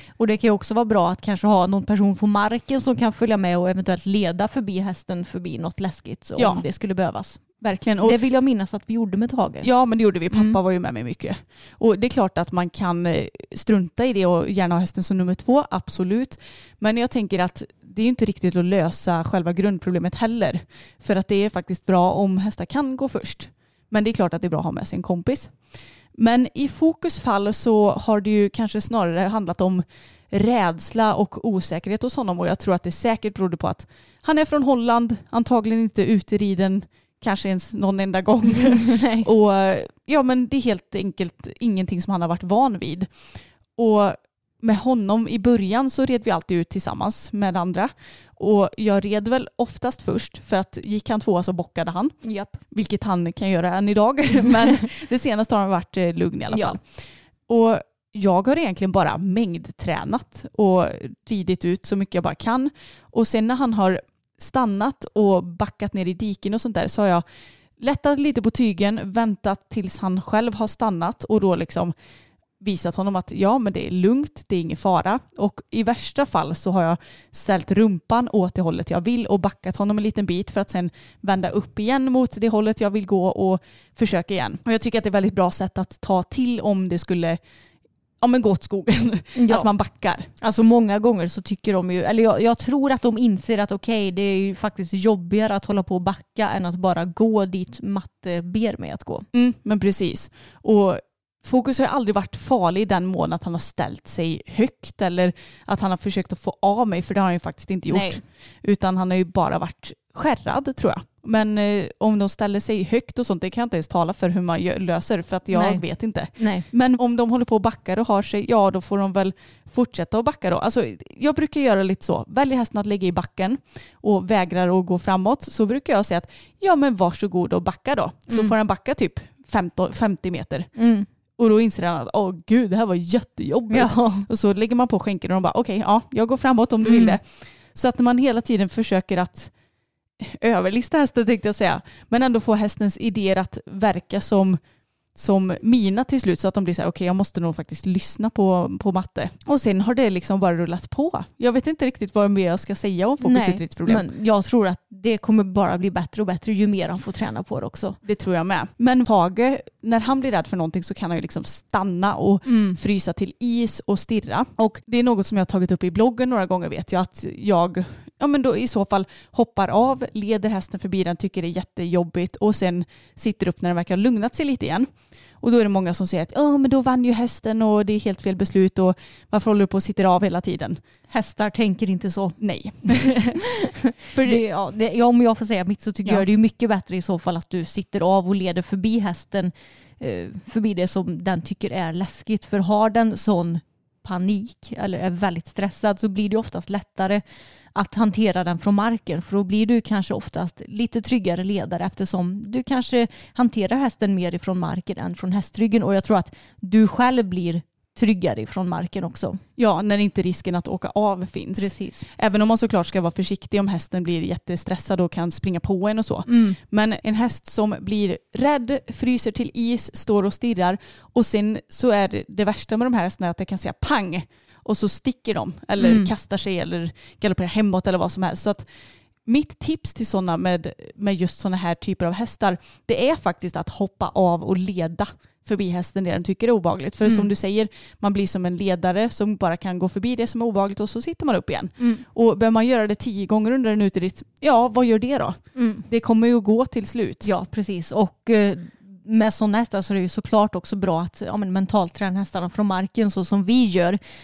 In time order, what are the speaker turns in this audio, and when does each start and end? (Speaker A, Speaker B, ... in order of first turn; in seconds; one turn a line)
Speaker A: 0.2-7.4
Speaker B: 6.4-6.6
Speaker B: 7.6-8.2
Speaker A: 8.0-9.7
Speaker B: 9.6-25.6
Speaker A: 10.3-10.6
Speaker B: 26.1-43.1
Speaker A: 38.7-39.3
Speaker B: 43.8-67.2
Speaker A: 52.2-52.6
Speaker A: 56.5-56.8
Speaker B: 67.8-71.9
Speaker B: 72.6-87.4
Speaker B: 88.2-90.3
Speaker A: 89.4-89.7
Speaker A: 90.4-99.3
Speaker B: 99.3-130.7
Speaker A: 107.9-108.2
Speaker A: 115.5-115.8
Speaker A: 116.3-116.7
Speaker A: 130.8-131.1
Speaker B: 131.4-139.5
Speaker A: 133.7-134.3
Speaker A: 136.8-137.2
Speaker B: 140.2-144.6
Speaker B: 145.2-154.1
Speaker A: 153.2-158.0
Speaker B: 158.0-180.8
Speaker A: 162.4-162.8
Speaker A: 181.1-197.2
Speaker B: 182.4-183.4
Speaker B: 184.1-184.4
Speaker A: 197.8-209.4
Speaker B: 209.6-228.7
Speaker A: 211.6-212.1
Speaker A: 216.3-216.6
Speaker A: 225.8-226.1
Speaker B: 229.3-247.3
Speaker A: 237.0-237.3
Speaker A: 241.8-242.0
Speaker A: 245.6-245.8
Speaker A: 247.2-254.0